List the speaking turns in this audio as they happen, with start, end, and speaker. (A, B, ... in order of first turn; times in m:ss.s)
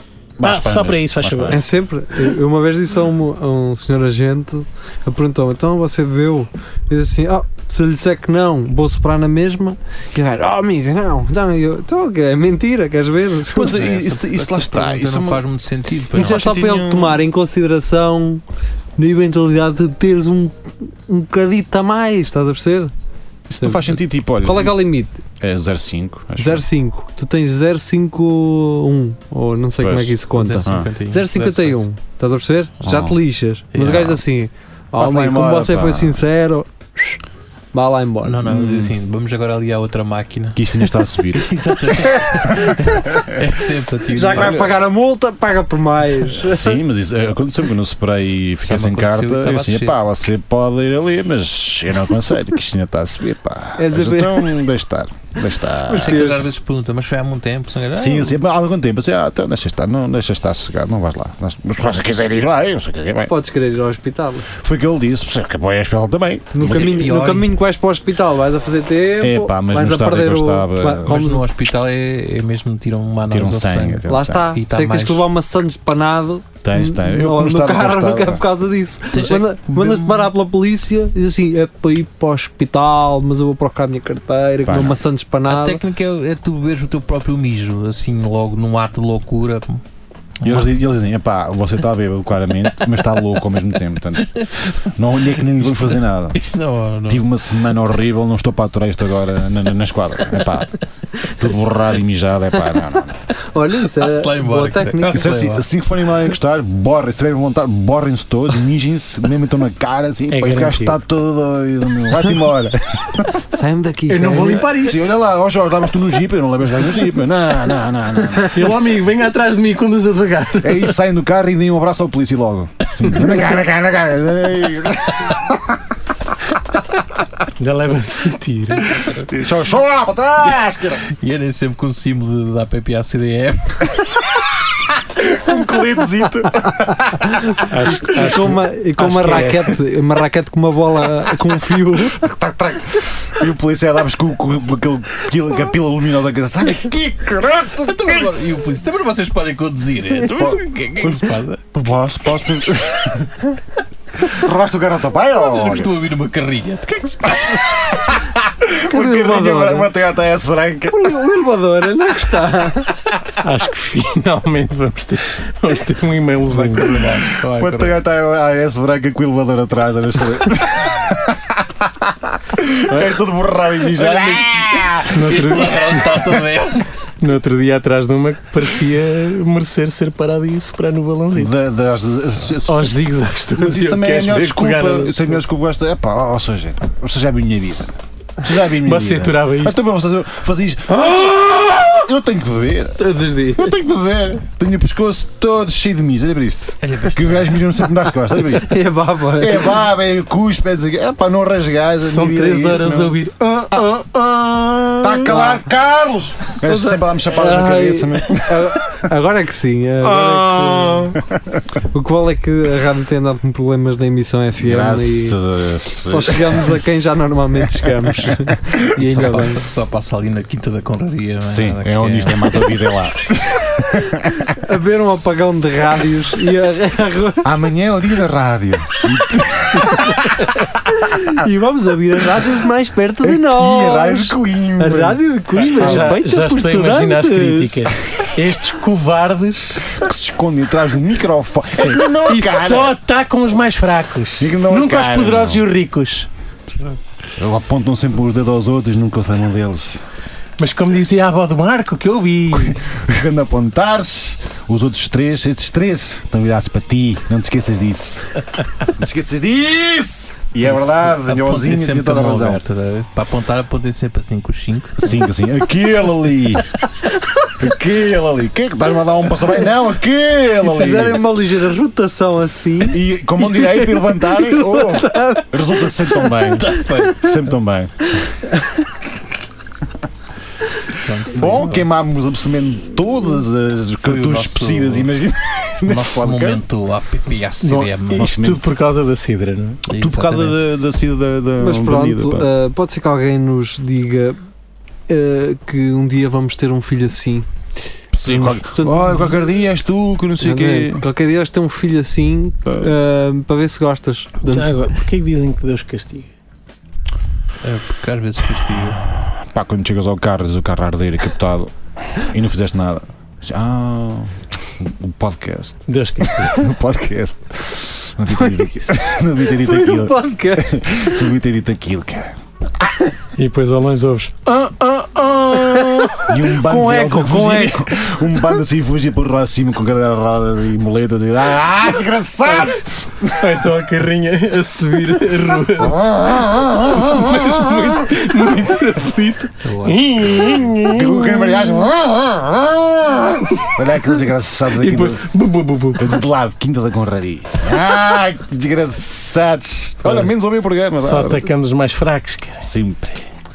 0:00.4-0:01.6 A
0:00.4-0:01.6 B
0:01.5-0:13.7 C
0:13.5-0:15.4 A
0:13.6-0:16.4 D
0:16.1-0:17.2 A
0:16.1-0:18.4 C
0:19.0-0:22.9 C
0:23.5-0:24.8 A
0:23.6-0:25.2 C
0:25.4-0:26.6 A
0:26.4-0:37.2 C
0:29.8-0:30.9 A
0:30.3-0:31.8 D
0:32.8-0:33.2 A
0:33.7-0:34.2 A
0:35.0-0:36.2 A
0:37.7-0:38.4 C
0:38.2-0:44.7 D
0:38.4-0:38.9 A
0:40.5-0:42.7 A
0:44.1-0:46.8 C
0:44.3-0:44.7 A
0:46.3-0:56.4 A
0:48.7-0:50.0 D
0:53.8-0:54.6 C
0:55.9-0:56.5 C
0:56.0-0:58.4 D
0:57.9-1:03.3 A
1:03.3-1:04.5 C
1:04.5-1:07.1 A
1:06.5-1:11.4 C
1:06.6-1:07.6 D
1:09.2-1:11.2 A
1:11.0-1:15.2 D
1:13.3-1:14.5 A
1:14.1-1:25.8 C
1:16.6-1:18.5 A
1:19.1-1:20.3 D
1:24.6-1:25.0 A
1:25.5-1:29.8 D
1:30.4-1:30.7 D
1:30.4-1:36.4 A
1:34.2-1:35.0 D
1:35.5-1:37.3 D
1:37.0-1:43.2 A
1:43.4-1:45.3 C
1:43.9-1:45.6 D
1:45.0-1:53.3 A
1:50.3-1:51.0 B
1:53.3-1:54.7 C
1:54.1-1:55.0 B
1:54.6-1:58.8 A
1:58.5-2:01.0 B
2:00.6-2:05.8 A
2:07.6-2:09.0 B
2:09.0-2:11.0 A
2:11.1-2:14.2 D
2:15.1-2:18.4 A
2:17.7-2:19.6 B
2:18.1-2:22.2 C
2:19.0-2:19.6 A
2:21.9-2:28.3 A
2:27.8-2:31.6 D
2:30.2-2:33.4 A
2:34.2-2:35.9 A
2:35.4-2:37.8 D
2:37.4-2:41.1 A
2:38.8-2:39.9 C
2:40.9-2:42.9 C
2:43.4-2:47.2 B
2:46.4-2:47.7 D
2:47.5-2:55.5 A
2:54.0-2:56.9 D
2:55.1-2:56.5 B
2:57.2-3:01.5 B
3:01.3-3:23.2 A
3:02.7-3:05.4 B
3:08.7-3:09.8 B
3:13.0-3:13.7 C
3:16.8-3:17.7 D
3:18.5-3:19.8 C
3:22.0-3:25.4 B
3:25.0-3:29.1 A
3:26.6-3:31.2 C
3:30.0-3:31.6 A
3:31.9-3:35.4 C
3:34.6-3:36.8 A
3:36.0-3:39.6 C
3:37.8-3:38.7 A
3:38.9-3:42.8 D
3:41.4-3:44.5 A
3:44.4-3:47.5 C
3:47.4-3:51.4 A
3:51.0-3:57.9 C
3:53.2-3:55.2 A
3:55.6-4:00.0 B
3:55.7-3:56.2 A
3:59.9-4:03.0 A
4:01.7-4:07.0 B
4:04.4-4:05.7 A
4:07.4-4:10.0 A
4:10.6-4:12.8 B
4:12.5-4:22.6 A
4:20.7-4:25.1 D
4:25.0-4:26.6 A
4:27.6-4:31.2 A
4:30.6-4:36.3 C
4:32.8-4:38.1 A
4:36.6-4:37.3 D
4:41.0-4:41.9 D
4:41.3-4:46.6 A
4:44.0-4:45.1 D
4:45.8-4:48.3 D
4:47.6-4:49.8 B
4:48.1-4:48.6 A
4:49.9-4:50.6 D
4:49.9-4:52.5 A
4:51.6-4:54.4 C
4:55.1-4:57.5 C
4:58.1-5:01.0 A
4:58.2-4:59.3 C
5:00.4-5:04.9 C
5:02.6-5:03.0 A
5:04.4-5:06.3 B
5:07.6-5:09.0 D
5:09.1-5:22.4 A
5:15.9-5:16.7 B
5:19.4-5:21.3 C
5:23.4-5:26.5 B
5:26.2-5:33.8 A
5:26.5-5:27.9 C
5:33.3-5:41.9 B
5:35.8-5:37.6 A
5:39.6-5:40.7 D
5:40.8-5:45.3 A
5:44.7-5:46.2 B
5:45.9-5:51.5 A
5:51.0-5:52.6 B
5:52.6-5:53.2 A